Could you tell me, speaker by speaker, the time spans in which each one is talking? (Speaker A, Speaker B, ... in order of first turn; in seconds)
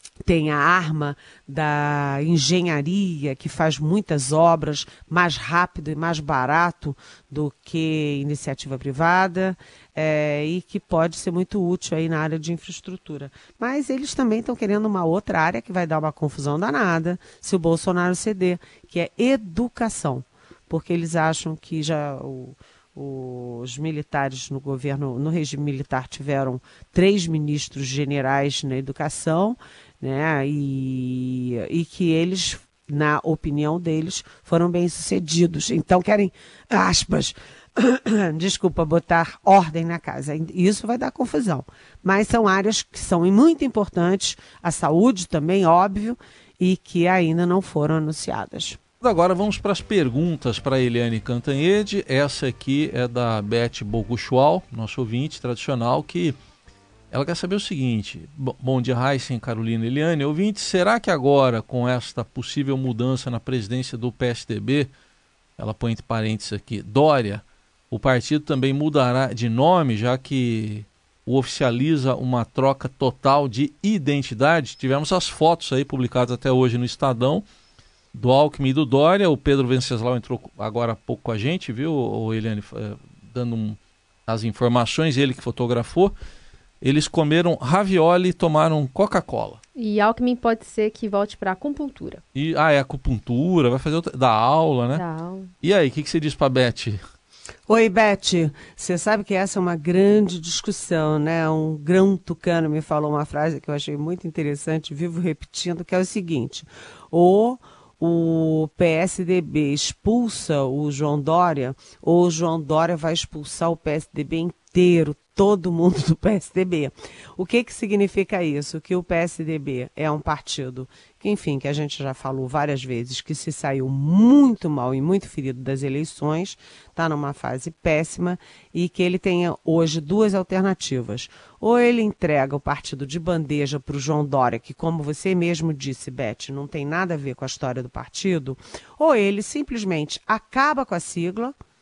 Speaker A: 0.2-48.8, 97.7-141.5
Speaker B: 49.0-56.4, 57.1-64.9, 65.6-77.5, 78.1-86.1, 86.8-89.6, 92.3-95.0, 95.6-97.0
Speaker C: 89.7-92.2, 94.9-95.5